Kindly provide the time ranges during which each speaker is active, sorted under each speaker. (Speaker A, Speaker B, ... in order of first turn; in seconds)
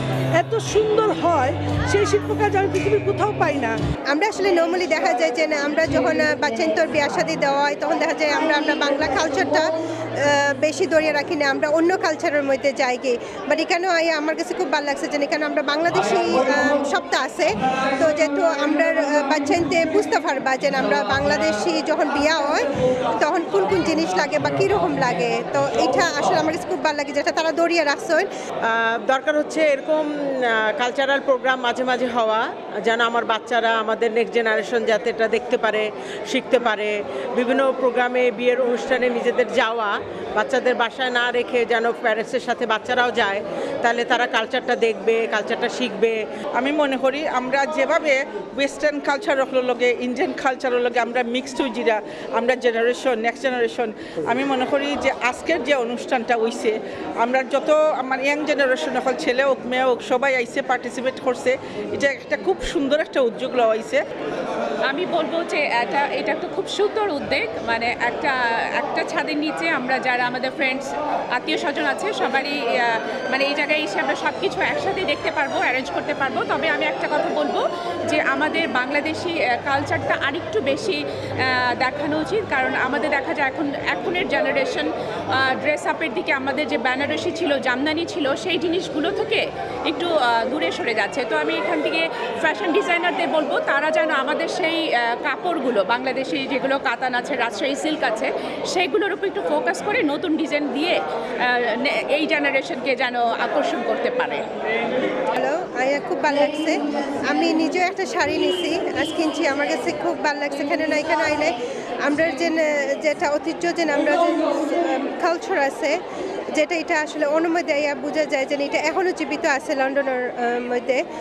Speaker A: 0.3-3.7
Speaker B: 4.1-28.3, 105.4-111.5, 112.0-116.0, 116.5-121.0
Speaker C: 28.6-46.2
Speaker D: 46.6-64.0
Speaker E: 64.8-104.5